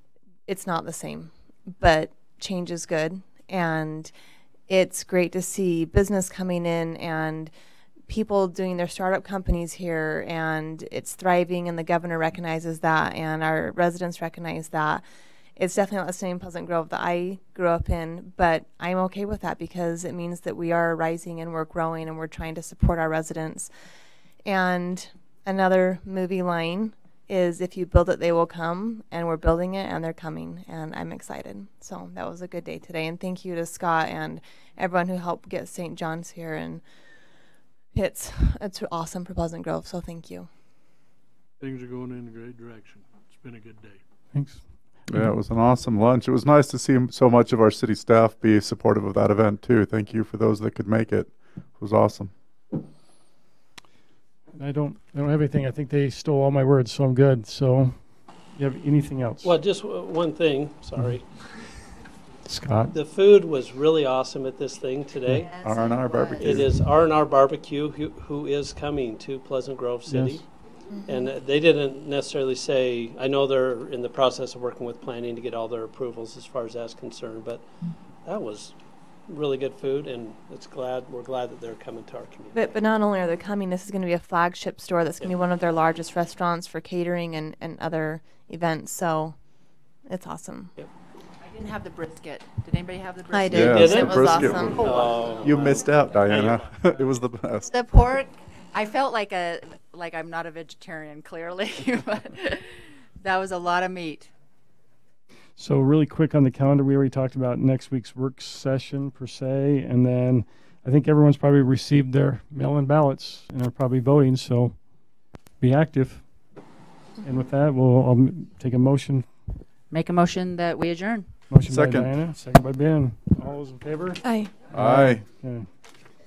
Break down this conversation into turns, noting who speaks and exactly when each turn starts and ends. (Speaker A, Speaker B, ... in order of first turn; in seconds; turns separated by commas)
Speaker A: 0.5-4.1, Speaker A: 4.7-7.5, Speaker A: 8.1-15.0, Speaker A: 15.6-23.7, Speaker A: 24.4-36.8, Speaker A: 37.9-40.5, Speaker B: 41.6-44.0, Speaker C: 44.3-45.4, Speaker D: 45.1-52.3, Speaker C: 54.5-59.5, Speaker E: 59.4-61.5, Speaker C: 62.5-62.9, Speaker E: 62.9-65.5, Speaker F: 65.4-66.6, Speaker D: 65.5-66.7, Speaker E: 66.4-70.4, Speaker C: 70.1-70.4, Speaker E: 71.0-77.6, Speaker E: 78.2-78.8, Speaker E: 79.3-82.7, Speaker A: 82.5-89.3, Speaker A: 90.1-90.7, Speaker F: 91.4-95.5, Speaker A: 93.3-94.9, Speaker D: 93.5-94.9, Speaker E: 93.6-96.6, Speaker D: 95.4-97.7, Speaker F: 97.6-104.3, Speaker C: 105.5-114.9, Speaker C: 115.6-116.3, Speaker C: 117.2-119.3, Speaker F: 119.9-121.3, Speaker C: 121.5-125.7, Speaker D: 121.6-122.1, Speaker A: 124.2-124.5, Speaker D: 124.7-125.2